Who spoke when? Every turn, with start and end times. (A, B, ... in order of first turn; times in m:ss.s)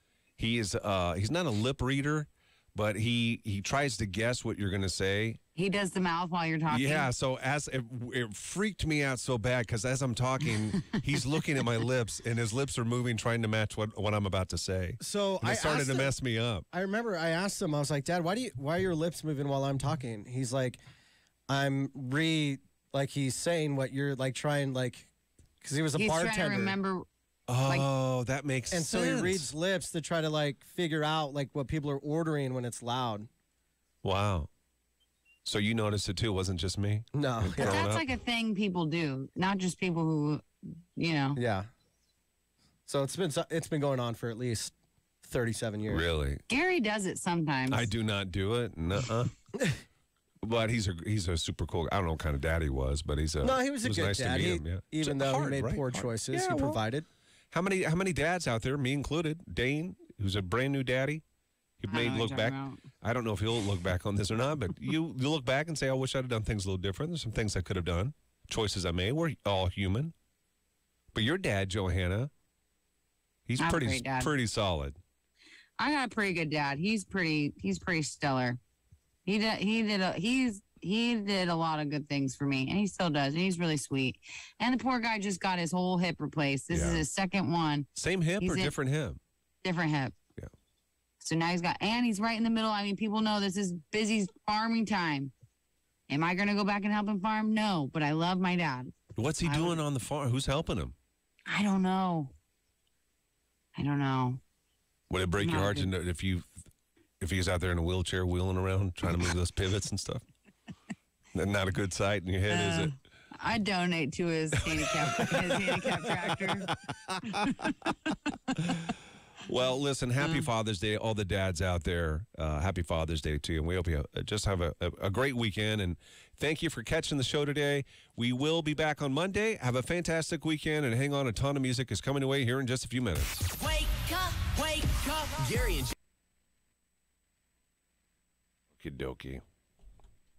0:00.4-0:05.4 A
0:05.6-0:07.1 B
0:06.7-0:16.6 A
0:15.0-0:16.1 C
0:16.7-0:20.8 C
0:21.5-0:26.8 C
0:26.0-0:27.0 B
0:27.5-0:29.5 A
0:28.7-0:33.3 C
0:34.0-0:34.5 A
0:35.4-0:38.0 A
0:37.1-0:37.8 C
0:37.6-0:40.4 B
0:41.0-0:41.4 B
0:41.3-0:41.7 C
0:42.8-0:46.0 C
0:45.9-0:46.4 A
0:46.5-0:47.9 B
0:47.7-0:49.3 A
0:49.5-0:49.8 C
0:50.4-0:56.8 A
0:53.4-0:57.1 C
0:57.5-1:01.2 A
1:01.8-1:10.1 A
1:01.9-1:02.8 B
1:11.1-1:12.3 A
1:13.5-1:15.0 A
1:13.6-1:14.3 B
1:15.8-1:18.6 B
1:19.2-1:27.9 B
1:26.7-1:27.0 A
1:27.9-1:29.2 A
1:28.4-1:28.7 B
1:29.6-1:30.2 B
1:31.2-1:35.3 B
1:36.1-1:39.8 B
1:39.2-1:40.9 A
1:41.5-1:42.3 B
1:43.8-1:44.4 B
1:45.1-1:46.5 A
1:45.4-1:45.9 B
1:47.2-1:50.2 A
1:51.3-1:52.9 A
1:52.5-1:56.7 B
1:54.6-1:57.6 A
1:57.3-1:57.9 B
1:58.6-1:58.9 A
1:59.4-2:13.4 A
2:00.2-2:00.5 B
2:13.6-2:15.9 D
2:18.8-2:19.4 A